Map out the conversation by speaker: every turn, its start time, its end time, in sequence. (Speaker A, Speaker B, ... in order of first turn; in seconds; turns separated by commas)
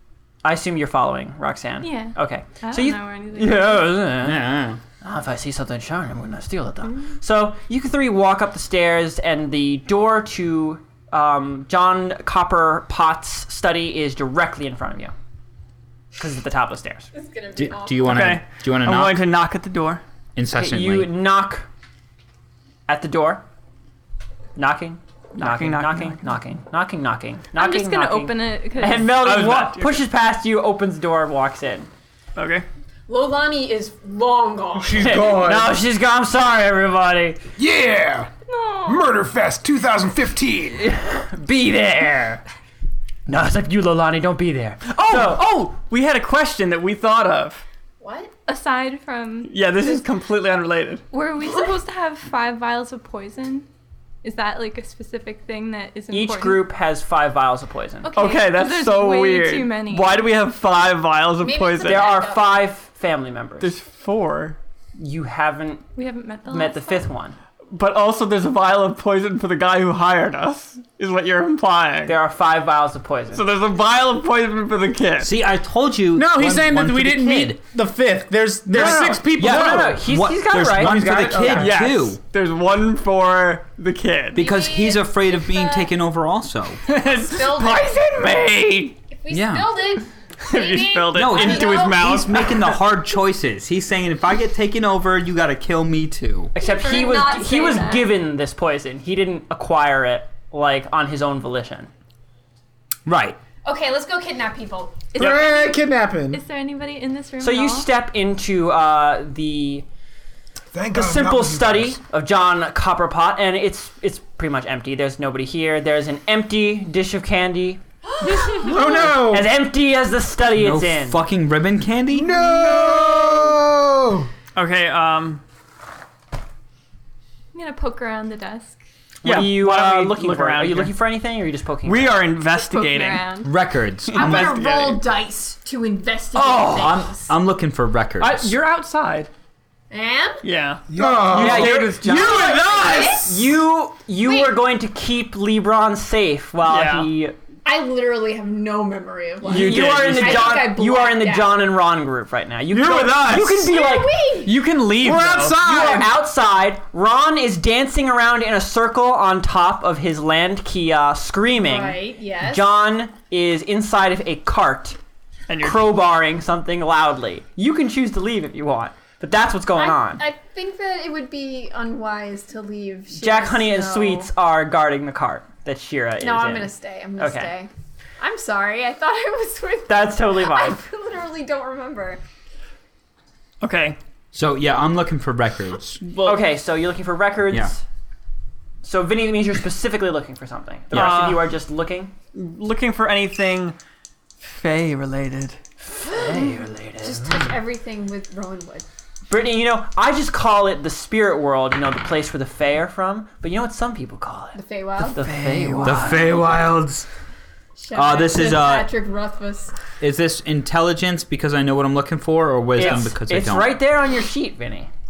Speaker A: 0.4-4.5, Speaker B: 1.8-4.1, Speaker C: 4.2-4.8, Speaker A: 5.0-15.1, Speaker A: 16.2-17.1, Speaker D: 17.1-18.3, Speaker C: 17.6-19.2, Speaker E: 18.1-20.0, Speaker C: 20.4-21.1, Speaker A: 20.5-21.7, Speaker A: 22.9-23.4, Speaker A: 24.6-31.9, Speaker E: 25.4-26.3, Speaker B: 27.6-29.2, Speaker E: 29.1-30.0, Speaker E: 32.4-32.6, Speaker D: 33.1-35.4, Speaker F: 34.8-35.7, Speaker G: 34.9-35.7, Speaker A: 35.0-37.4, Speaker G: 37.6-38.3, Speaker B: 38.5-39.1, Speaker G: 38.9-40.9, Speaker A: 40.8-42.4, Speaker A: 43.3-45.5, Speaker E: 45.0-47.6, Speaker D: 48.0-48.3, Speaker B: 48.5-49.5, Speaker E: 49.5-51.0, Speaker B: 51.1-53.7, Speaker D: 51.4-51.7, Speaker B: 54.2-56.7, Speaker A: 56.1-58.1, Speaker B: 58.0-60.3, Speaker E: 58.2-62.2, Speaker D: 61.4-62.6, Speaker A: 61.8-63.7, Speaker E: 63.6-64.6, Speaker A: 65.0-65.8, Speaker B: 66.0-67.1, Speaker A: 66.5-67.3, Speaker E: 67.7-72.2, Speaker A: 72.1-73.5, Speaker E: 73.3-75.3, Speaker C: 75.2-77.6, Speaker F: 76.1-80.0, Speaker C: 78.7-82.2, Speaker E: 78.7-79.2, Speaker A: 78.8-81.6, Speaker F: 80.7-81.8, Speaker E: 81.5-84.5, Speaker C: 84.3-86.8, Speaker D: 84.4-85.9, Speaker E: 86.9-89.0, Speaker D: 87.3-88.0, Speaker D: 89.1-92.1, Speaker C: 89.3-89.8, Speaker E: 90.4-92.8, Speaker C: 91.1-96.5, Speaker A: 96.5-101.9, Speaker D: 96.6-98.2, Speaker C: 103.1-103.4, Speaker D: 103.6-105.2, Speaker B: 105.2-107.9, Speaker F: 105.2-106.4, Speaker A: 107.4-109.9, Speaker G: 110.7-112.0, Speaker A: 110.9-117.8, Speaker D: 118.2-118.7, Speaker F: 118.6-119.5, Speaker A: 118.6-121.2, Speaker C: 120.5-122.4, Speaker G: 122.1-124.3, Speaker D: 122.4-123.2, Speaker E: 124.5-125.4, Speaker B: 127.5-128.8, Speaker E: 129.2-130.9, Speaker A: 129.2-132.2, Speaker E: 131.8-133.3, Speaker B: 132.6-133.5, Speaker C: 133.4-134.5, Speaker E: 134.1-135.1, Speaker D: 134.1-137.4, Speaker E: 136.3-136.9, Speaker C: 136.7-138.5, Speaker E: 138.2-139.3, Speaker D: 139.9-140.4, Speaker E: 140.4-142.7, Speaker G: 140.9-141.7, Speaker F: 140.9-143.4, Speaker A: 141.3-142.1, Speaker D: 142.1-143.3, Speaker A: 143.0-147.3, Speaker D: 144.2-144.6, Speaker E: 146.7-147.1, Speaker D: 147.7-151.7, Speaker E: 149.4-150.8, Speaker A: 149.5-154.1, Speaker F: 152.7-153.7, Speaker D: 153.6-154.6, Speaker E: 154.4-155.6, Speaker F: 155.0-156.1, Speaker A: 155.5-165.0, Speaker D: 161.6-162.7, Speaker E: 165.5-165.9, Speaker A: 165.6-170.2, Speaker D: 169.8-174.3, Speaker A: 173.1-177.5, Speaker D: 176.2-182.2, Speaker A: 179.9-180.8, Speaker E: 183.6-184.0, Speaker C: 184.3-186.0, Speaker E: 186.0-186.4, Speaker A: 186.2-187.8, Speaker A: 188.8-192.1, Speaker E: 190.9-191.5, Speaker E: 192.3-193.8, Speaker E: 194.4-195.6, Speaker A: 195.9-197.4, Speaker D: 196.1-198.9, Speaker A: 199.3-206.5, Speaker D: 204.6-205.2, Speaker E: 205.2-206.3, Speaker C: 205.8-207.1, Speaker D: 207.8-209.8, Speaker C: 207.9-208.9, Speaker C: 210.0-213.8, Speaker A: 212.8-214.9